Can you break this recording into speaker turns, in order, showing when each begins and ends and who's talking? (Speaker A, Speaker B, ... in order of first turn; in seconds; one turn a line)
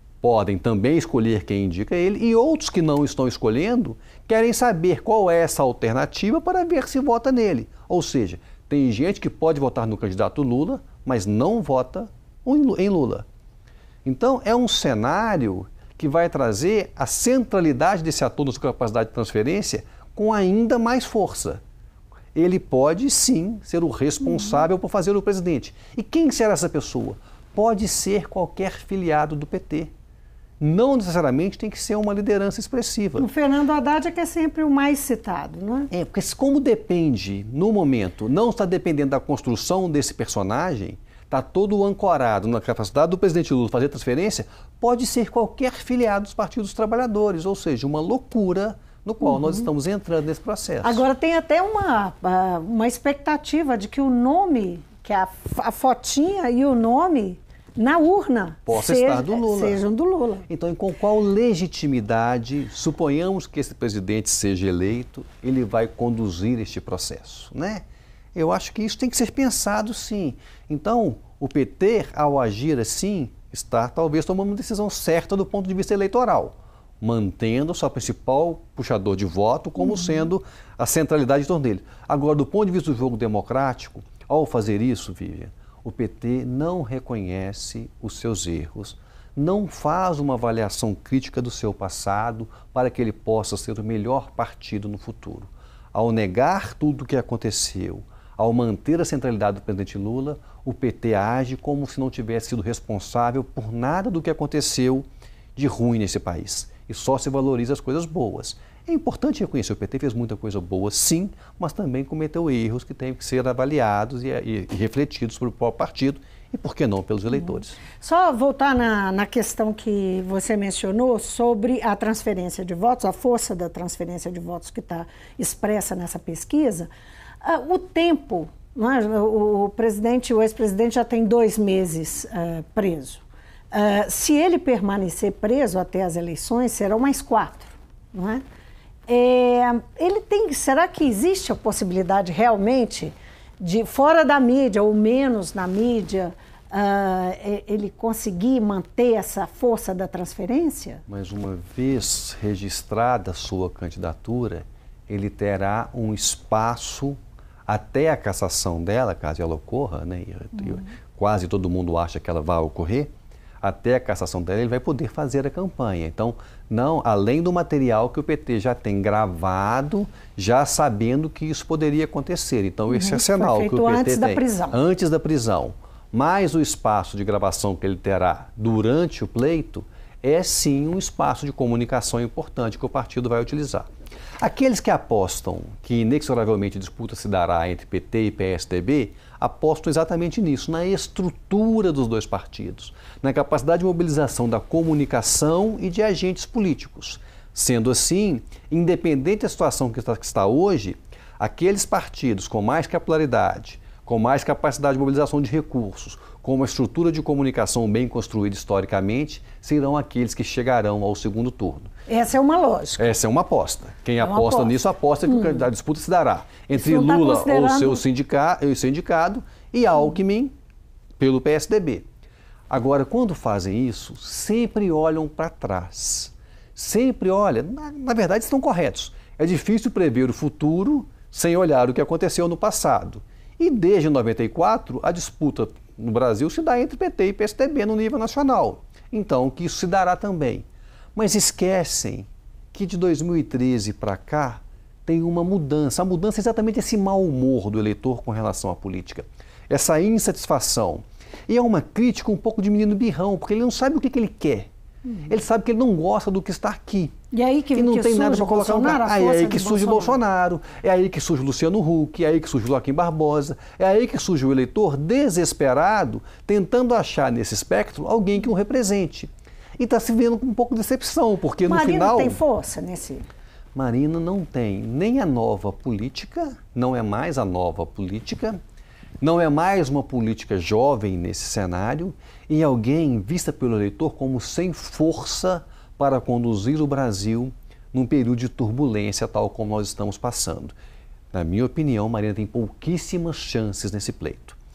Speaker A: 0.2-13.2
Speaker A: 14.1-21.6
Speaker A: 22.4-29.9
Speaker A: 30.6-33.3
Speaker B: 33.2-35.9
Speaker A: 35.9-51.0
Speaker B: 49.4-49.7
Speaker B: 50.8-60.5
Speaker A: 58.7-59.8
Speaker A: 60.5-67.8
Speaker A: 68.3-117.8
Speaker B: 117.8-126.9
Speaker B: 127.4-138.4
Speaker B: 139.1-151.0
Speaker A: 151.1-163.1
Speaker A: 163.6-183.9
Speaker B: 172.9-174.8
Speaker A: 184.4-211.9
Speaker B: 212.1-213.1
Speaker A: 213.0-220.5
Speaker B: 214.2-215.6
Speaker B: 216.7-218.0
Speaker A: 221.2-222.1
Speaker A: 222.7-254.7
Speaker A: 255.3-257.2
Speaker B: 257.3-260.2
Speaker A: 257.7-272.4
Speaker B: 271.7-273.3
Speaker A: 273.7-278.6
Speaker A: 279.2-290.7
Speaker A: 291.3-294.6